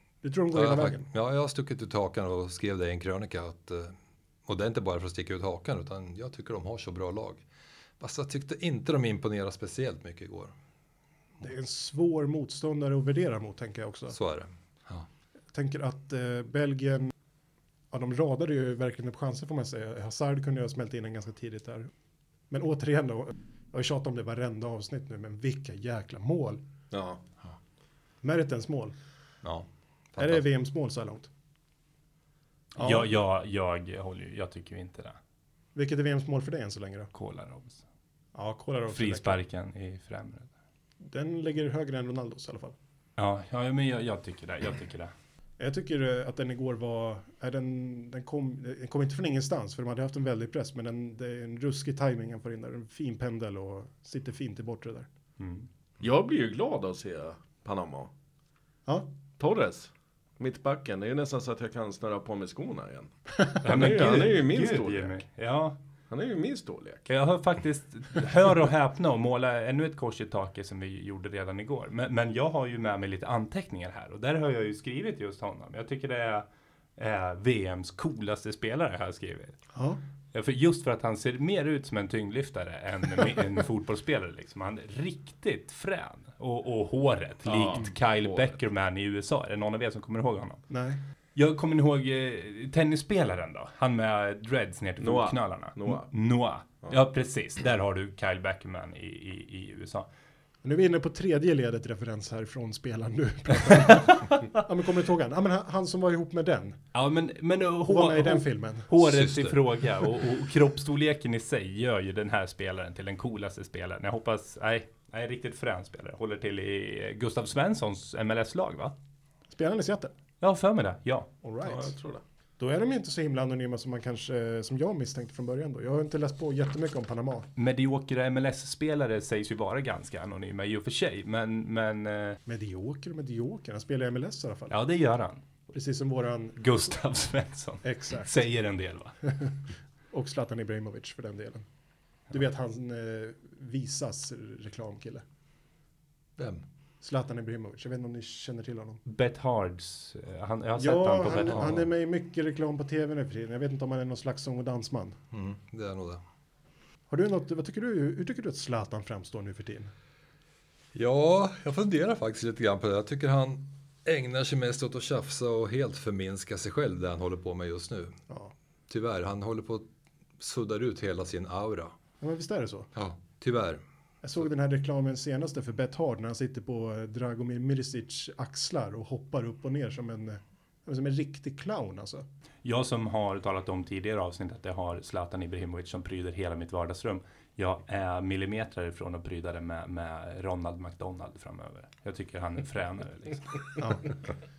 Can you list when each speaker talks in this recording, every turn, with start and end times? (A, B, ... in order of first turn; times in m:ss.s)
0:00.2-0:01.1 A
0:00.5-0:07.4 B
0:08.0-0:10.5 B
0:11.4-0:14.2 A
0:14.1-0:15.1 B
0:15.5-0:17.1 A
0:17.9-0:21.9 A
0:22.5-0:26.6 A
0:26.9-0:27.2 C
0:28.2-0:29.0 A
0:29.4-0:30.4 B
0:30.2-0:31.3 A
0:32.7-0:35.2 D
0:32.8-0:33.1 A
0:35.7-0:37.1 A
0:37.1-0:37.8 D
0:38.3-0:39.4 A
0:38.9-0:40.5 D
0:41.0-0:42.8 A
0:43.2-0:45.1 D
0:45.6-0:55.1 A
0:55.4-0:55.6 D
0:56.0-0:58.1 C
0:59.4-1:05.1 C
1:03.6-1:05.8 D
1:06.1-1:07.1 C
1:07.1-1:16.4 D
1:17.0-1:19.6 D
1:19.7-1:20.0 A
1:20.3-1:30.6 D
1:27.4-1:28.5 C
1:30.7-1:31.0 A
1:31.3-1:40.1 D
1:35.0-1:36.1 C
1:40.6-1:46.8 A
1:43.9-1:44.4 D
1:46.9-1:58.9 D
1:47.9-1:48.9 A
1:49.0-1:49.7 B
1:59.5-2:00.1 A
2:00.4-2:01.3 D
2:01.4-2:02.0 A
2:01.6-2:02.2 C
2:02.6-2:07.5 A
2:07.6-2:12.4 D
2:12.4-2:14.7 A
2:14.7-2:15.4 D
2:15.7-2:16.8 A
2:16.6-2:19.2 D
2:17.8-2:18.4 A
2:20.1-2:21.6 A
2:22.3-2:25.2 A
2:26.4-2:26.6 B
2:27.0-2:29.0 A
2:29.1-2:31.8 D
2:30.8-2:35.2 A
2:35.3-2:36.2 B
2:37.1-2:39.9 A
2:40.9-2:48.2 B
2:48.9-2:49.9 B
2:50.4-2:52.0 B
2:52.2-2:52.9 A
2:52.9-2:53.8 B
2:54.2-3:02.2 A
3:02.6-3:13.8 D
3:13.8-3:14.1 A